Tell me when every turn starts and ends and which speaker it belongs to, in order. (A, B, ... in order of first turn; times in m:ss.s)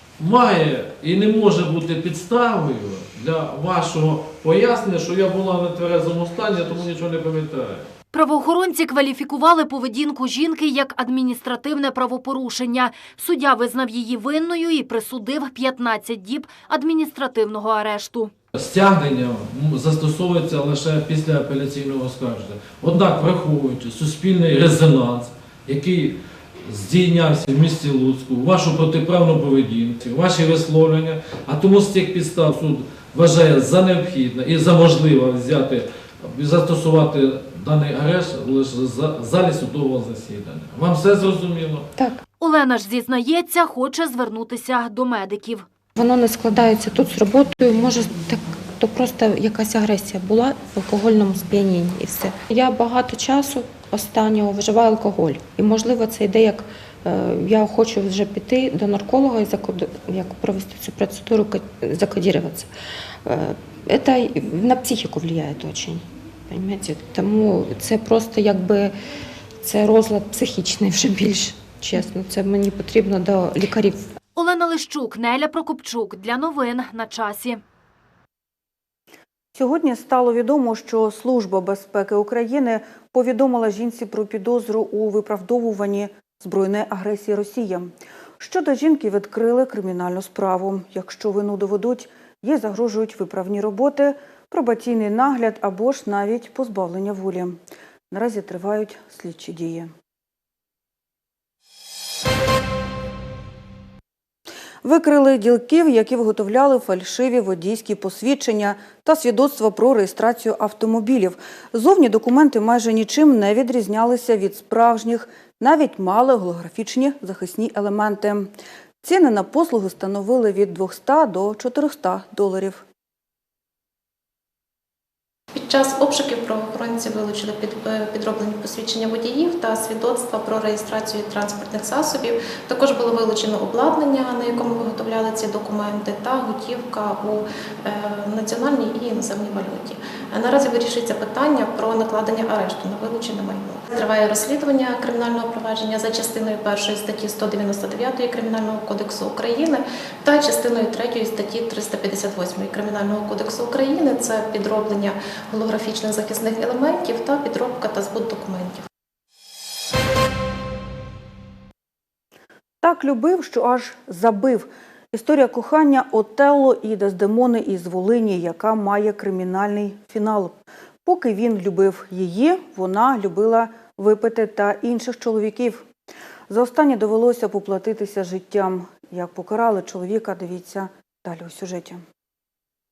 0:00.2-0:07.9 A
0:08.1-0:18.3 B
0:18.5-0:41.9 A
0:42.0-0:42.2 C
0:42.4-0:45.6 B
0:46.0-1:02.7 C
1:03.2-1:09.0 C
1:09.6-1:14.1 C
1:14.4-1:17.6 B
1:19.5-1:39.9 D
1:44.8-1:58.5 D
1:59.0-2:02.8 D
2:05.5-2:38.8 E
2:42.8-2:55.9 D
2:56.5-3:02.0 D